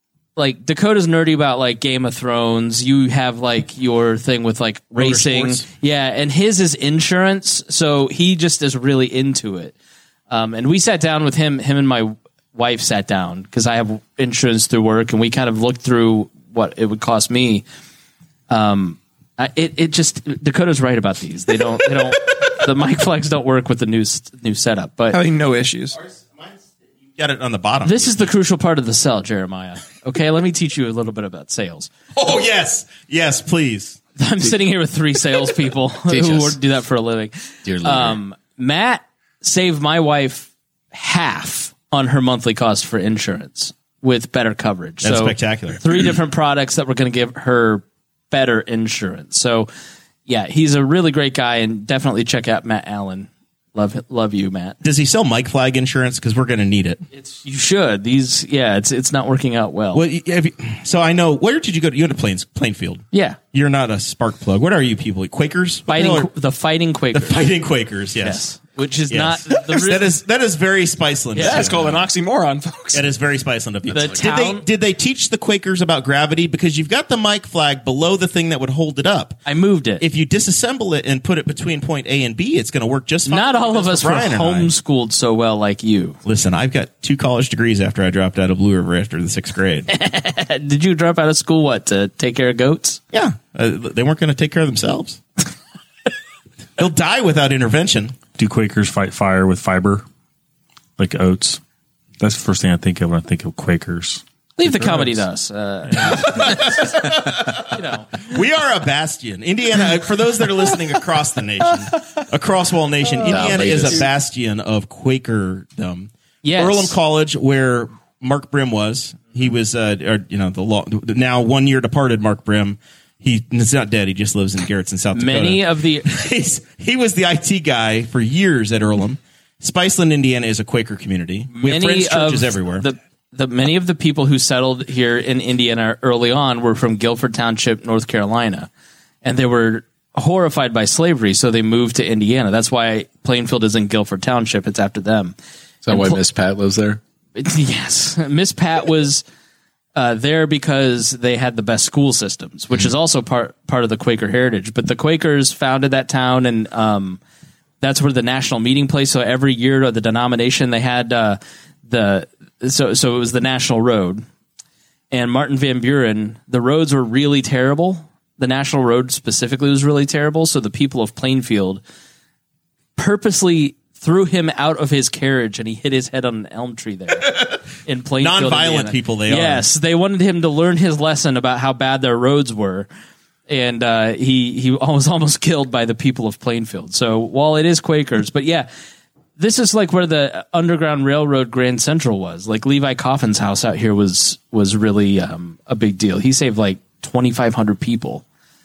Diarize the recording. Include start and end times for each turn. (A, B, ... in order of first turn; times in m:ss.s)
0:00.4-0:09.7 A
0:05.0-0:05.6 B
0:10.3-0:17.6 A
0:18.5-0:25.2 A
0:25.1-0:26.0 C
0:25.9-0:26.6 B
0:27.1-0:28.3 B
0:27.8-0:31.9 A
0:32.1-0:34.0 B
0:34.2-0:49.7 A
0:36.1-0:36.6 D
0:37.6-0:38.2 D
0:45.0-0:45.8 B
0:50.3-0:54.8 A
0:54.8-0:57.0 B
0:57.1-1:00.0 A
0:59.9-1:06.3 B
1:03.1-1:03.4 A
1:05.9-1:07.4 A
1:07.1-1:08.4 B
1:08.2-1:10.2 A
1:09.1-1:12.0 B
1:09.5-1:09.9 C
1:11.4-1:13.0 C
1:11.4-1:11.7 A
1:11.4-1:11.8 E
1:12.9-1:19.4 B
1:13.9-1:14.6 A
1:19.5-1:20.0 A
1:20.0-1:24.7 B
1:23.3-1:26.2 A
1:26.2-1:29.9 B
1:29.9-1:33.0 A
1:33.1-1:35.2 B
1:36.8-1:38.2 B
1:38.4-1:40.0 E
1:41.0-1:41.6 E
1:42.2-1:45.2 E
1:44.6-1:46.9 A
1:45.9-1:46.2 E
1:46.0-2:12.9 B
1:47.7-1:48.4 A
1:53.2-1:54.1 D
1:56.4-1:57.0 A
2:05.1-2:06.1 A
2:11.5-2:18.7 A
2:19.2-2:25.4 A
2:25.8-2:27.0 D
2:25.9-2:26.2 A
2:27.4-2:29.2 A
2:30.0-2:37.2 A
2:37.8-2:44.2 A
2:45.1-2:51.8 A
2:53.0-3:02.9 A
2:57.2-2:57.6 B
2:58.2-2:59.7 B
3:03.5-3:08.7 A
3:09.4-3:18.2 A